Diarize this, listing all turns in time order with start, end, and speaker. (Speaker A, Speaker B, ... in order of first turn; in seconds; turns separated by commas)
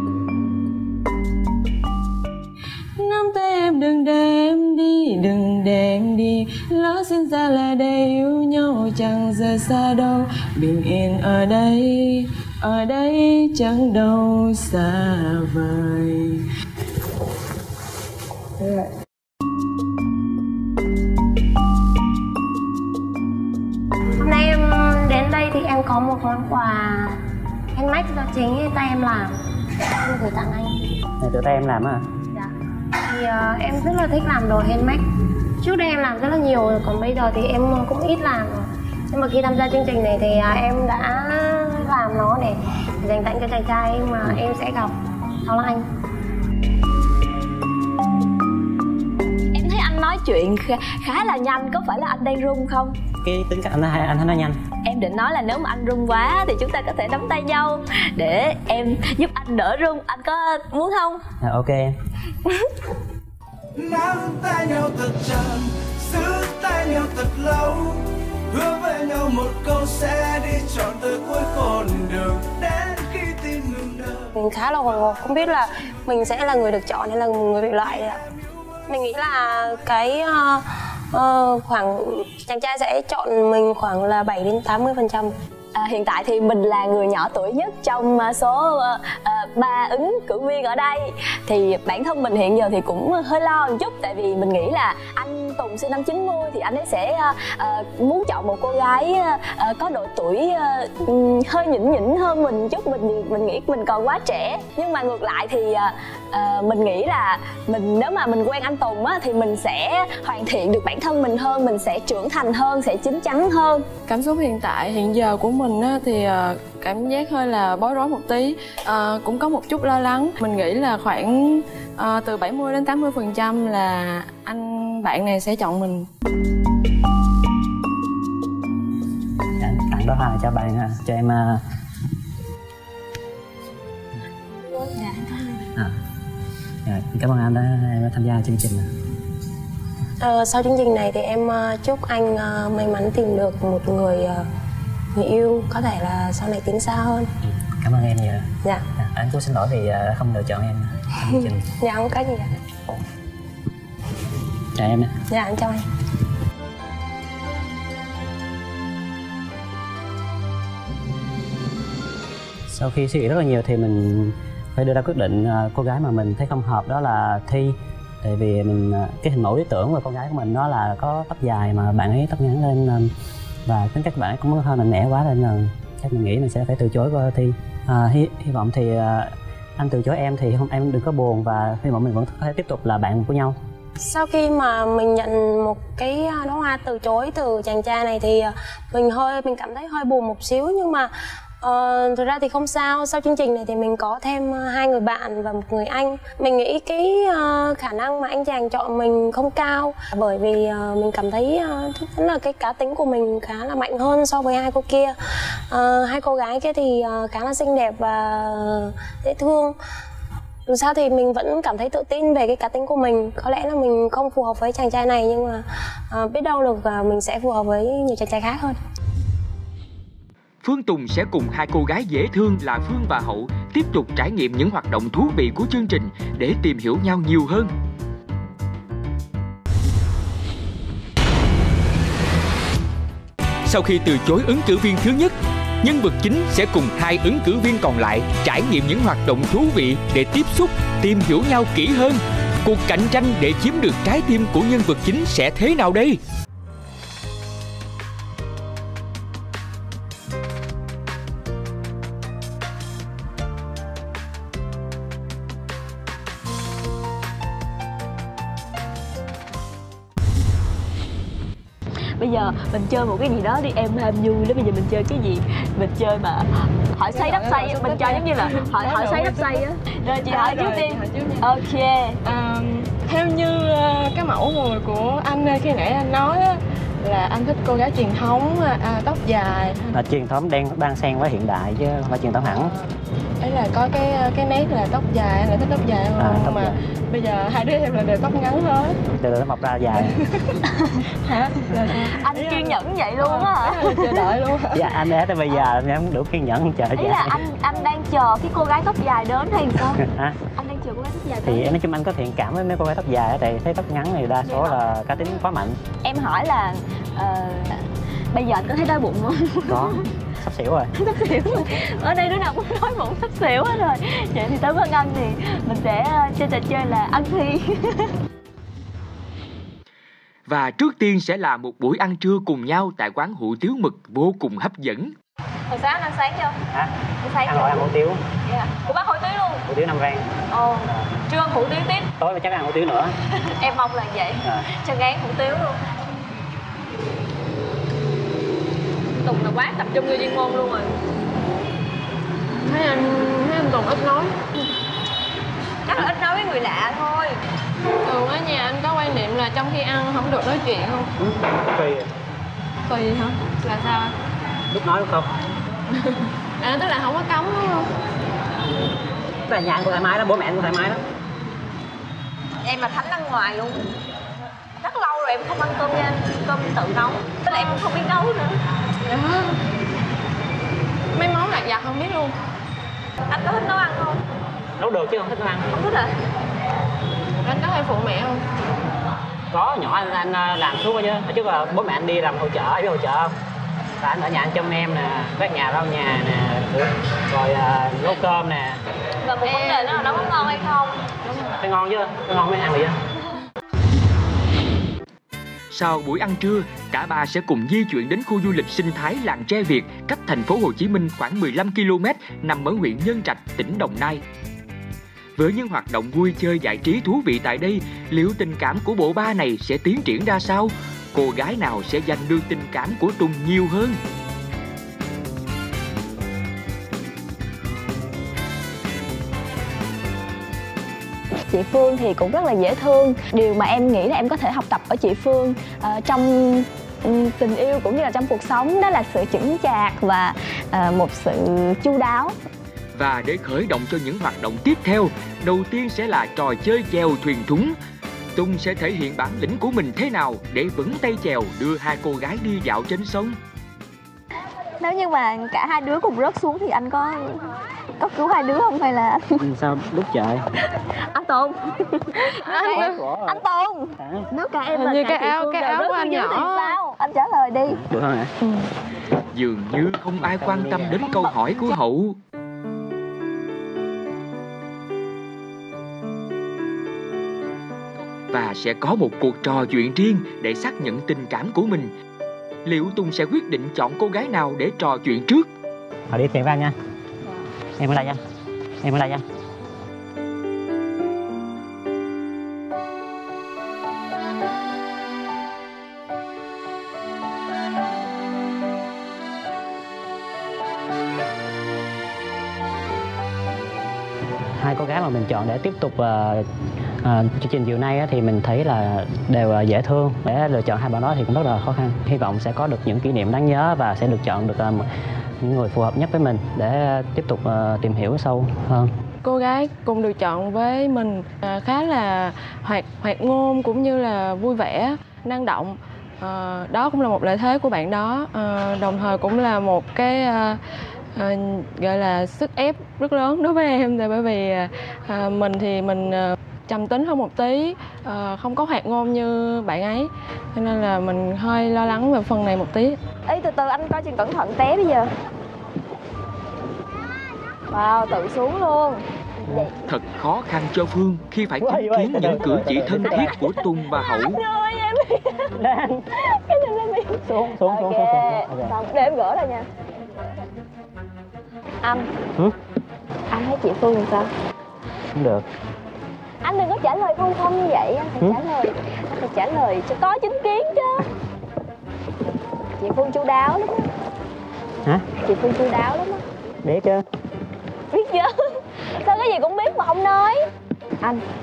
Speaker A: 3.0-16.5, Speaker B: 24.2-27.2, Speaker B: 27.8-30.9, Speaker C: 31.2-32.1, Speaker B: 33.1-35.0, Speaker B: 35.6-44.9, Speaker B: 45.5-45.9, Speaker D: 49.5-53.0, Speaker C: 53.2-54.6, Speaker D: 54.8-61.3, Speaker C: 61.4-62.0, Speaker E: 63.8-74.3, Speaker B: 74.3-78.2, Speaker B: 78.9-85.3, Speaker D: 85.8-113.9, Speaker A: 114.1-126.1, Speaker C: 129.6-131.6, Speaker D: 134.7-135.6, Speaker C: 136.8-138.9, Speaker B: 140.2-144.5, Speaker B: 145.1-147.3, Speaker C: 147.4-151.6, Speaker B: 151.2-152.5, Speaker C: 154.8-155.2, Speaker B: 155.3-155.9, Speaker C: 162.7-173.1, Speaker C: 173.7-183.6, Speaker B: 184.0-209.8, Speaker B: 210.7-218.8, Speaker F: 220.6-227.7, Speaker F: 233.7-246.2, Speaker D: 262.2-272.2, Speaker A: 267.1-269.6, Speaker A: 270.3-271.5, Speaker A: 272.2-279.9, Speaker C: 279.9-282.7, Speaker A: 282.5-282.9, Speaker A: 283.4-289.0, Speaker C: 286.2-286.8, Speaker C: 289.2-290.2, Speaker A: 290.2-294.9, Speaker D: 292.1-294.2, Speaker C: 294.7-297.4, Speaker D: 297.0-300.0, Speaker C: 299.9-300.4, Speaker D: 300.6-301.8, Speaker C: 301.4-305.8, Speaker D: 304.4-304.8, Speaker D: 306.0-310.1, Speaker C: 309.7-310.9, Speaker D: 311.0-318.1, Speaker F: 320.5-325.1, Speaker D: 325.7-326.6, Speaker D: 327.2-327.9, Speaker C: 327.4-328.2, Speaker D: 328.5-329.6, Speaker C: 329.7-330.3, Speaker D: 330.5-332.1, Speaker C: 332.2-333.2, Speaker D: 333.4-335.8, Speaker D: 339.2-341.0, Speaker A: 342.6-344.4, Speaker D: 345.9-347.4, Speaker A: 348.0-351.1, Speaker C: 351.2-352.1, Speaker A: 352.9-354.1, Speaker C: 354.7-355.3, Speaker A: 355.9-357.9, Speaker C: 359.5-361.0, Speaker D: 362.6-363.9, Speaker D: 364.8-368.6, Speaker A: 369.1-369.6, Speaker A: 371.1-372.3, Speaker D: 373.3-374.2, Speaker C: 374.8-375.7, Speaker D: 375.7-376.1, Speaker A: 377.4-378.4, Speaker C: 379.5-383.3, Speaker C: 384.0-388.8, Speaker D: 389.2-391.1, Speaker A: 389.5-389.9, Speaker A: 391.3-391.5, Speaker C: 391.6-393.0, Speaker F: 395.7-404.2, Speaker F: 405.4-414.0, Speaker D: 421.5-432.4, Speaker F: 432.9-437.8, Speaker F: 438.4-443.4, Speaker D: 444.8-449.4, Speaker C: 449.4-450.5, Speaker D: 451.1-457.8, Speaker A: 452.3-453.0, Speaker C: 452.7-453.4, Speaker C: 454.0-454.3, Speaker A: 454.7-456.8, Speaker C: 457.7-458.3, Speaker F: 459.3-462.2, Speaker C: 460.2-461.0, Speaker D: 461.1-461.7, Speaker F: 468.3-471.9, Speaker F: 472.6-475.5, Speaker C: 476.1-476.8, Speaker C: 477.8-478.2, Speaker C: 478.8-479.2, Speaker C: 494.6-496.5, Speaker C: 497.0-504.9, Speaker C: 505.4-508.9, Speaker A: 509.2-520.6, Speaker A: 521.1-533.0, Speaker D: 533.3-535.1, Speaker D: 537.7-539.7, Speaker F: 539.9-544.4, Speaker C: 541.6-543.4, Speaker D: 543.0-545.5, Speaker C: 545.5-546.1, Speaker D: 546.1-549.7, Speaker C: 547.2-548.8, Speaker D: 551.8-552.1, Speaker D: 553.3-554.3, Speaker C: 555.1-555.5, Speaker D: 556.4-561.1, Speaker D: 562.8-563.9, Speaker D: 565.2-566.2, Speaker C: 566.6-567.0, Speaker D: 567.9-570.5